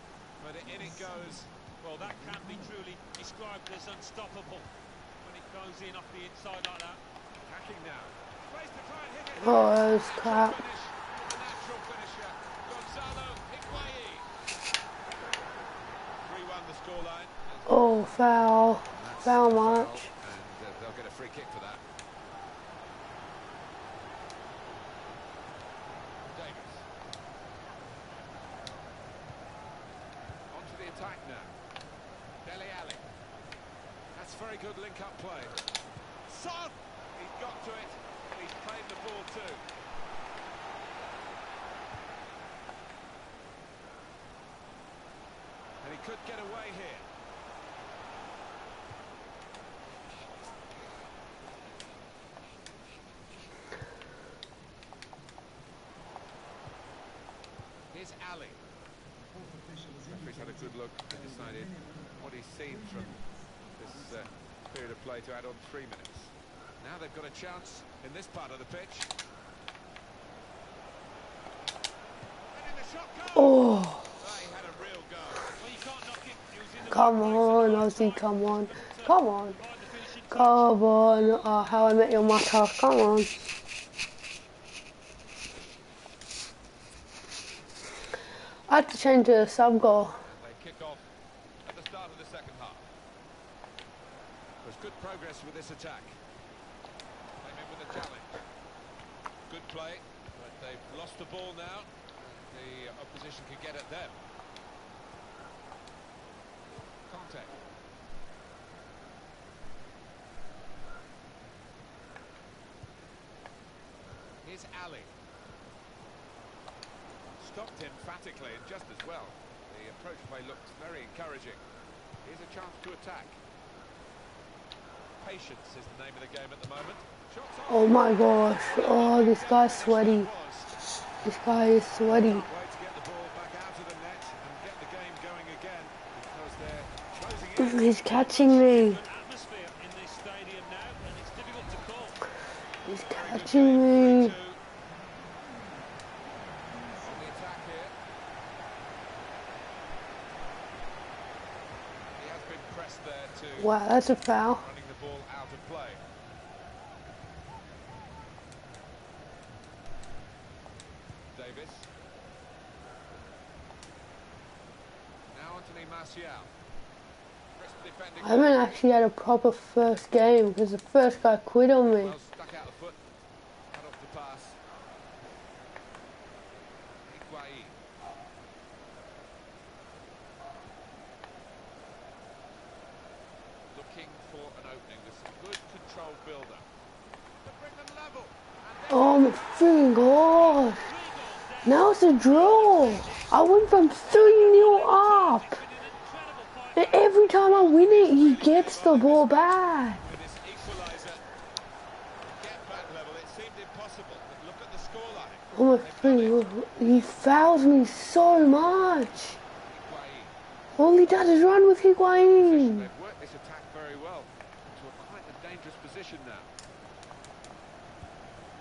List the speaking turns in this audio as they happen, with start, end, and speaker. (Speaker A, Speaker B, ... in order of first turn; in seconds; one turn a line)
Speaker A: 0.4-1.5
Speaker B: 1.8-4.7
Speaker B: 5.2-7.0
Speaker A: 7.5-14.3
Speaker C: 9.4-10.6
Speaker A: 16.2-17.9
Speaker C: 17.7-19.9
Speaker A: 18.9-21.8
Speaker A: 26.3-26.9
Speaker A: 30.5-31.5
Speaker A: 32.4-33.1
Speaker A: 34.1-35.6
Speaker A: 36.2-39.6
Speaker A: 45.8-47.0
Speaker A: 57.9-58.6
Speaker A: 60.0-69.1
Speaker A: 72.5-75.5
Speaker C: 73.3-74.0
Speaker B: 75.5-80.7
Speaker C: 76.9-79.6
Speaker C: 80.3-83.3
Speaker C: 88.7-90.2
Speaker A: 90.2-91.1
Speaker A: 91.6-92.9
Speaker A: 94.6-96.2
Speaker A: 97.4-98.4
Speaker A: 99.5-104.2
Speaker A: 107.0-107.6
Speaker A: 114.4-115.1
Speaker A: 117.4-121.6
Speaker A: 122.2-123.4
Speaker A: 125.2-130.8
Speaker C: 127.7-130.3
Speaker C: 131.2-132.4
Speaker A: 132.0-138.2
Speaker C: 137.6-139.0
Speaker B: 138.2-142.2
Speaker C: 142.8-144.3
Speaker A: 143.1-144.6
Speaker A: 147.0-147.9
Speaker A: 152.2-153.8
Speaker C: 153.6-154.6
Speaker A: 154.6-156.0
Speaker A: 161.3-161.9
Speaker A: 165.3-166.5
Speaker A: 167.5-168.6
Speaker C: 168.2-172.1
Speaker A: 171.9-173.0
Speaker A: 173.7-174.6
Speaker A: 177.0-177.8
Speaker A: 183.7-186.7
Speaker A: 187.4-190.6
Speaker C: 188.9-190.8
Speaker B: 190.6-192.4
Speaker C: 191.6-195.6
Speaker A: 192.2-193.4
Speaker B: 194.0-197.9
Speaker C: 196.8-200.0
Speaker A: 197.7-201.2
Speaker A: 202.2-206.5
Speaker C: 205.5-209.4
Speaker A: 209.7-210.3
Speaker C: 210.8-212.8
Speaker A: 212.3-216.5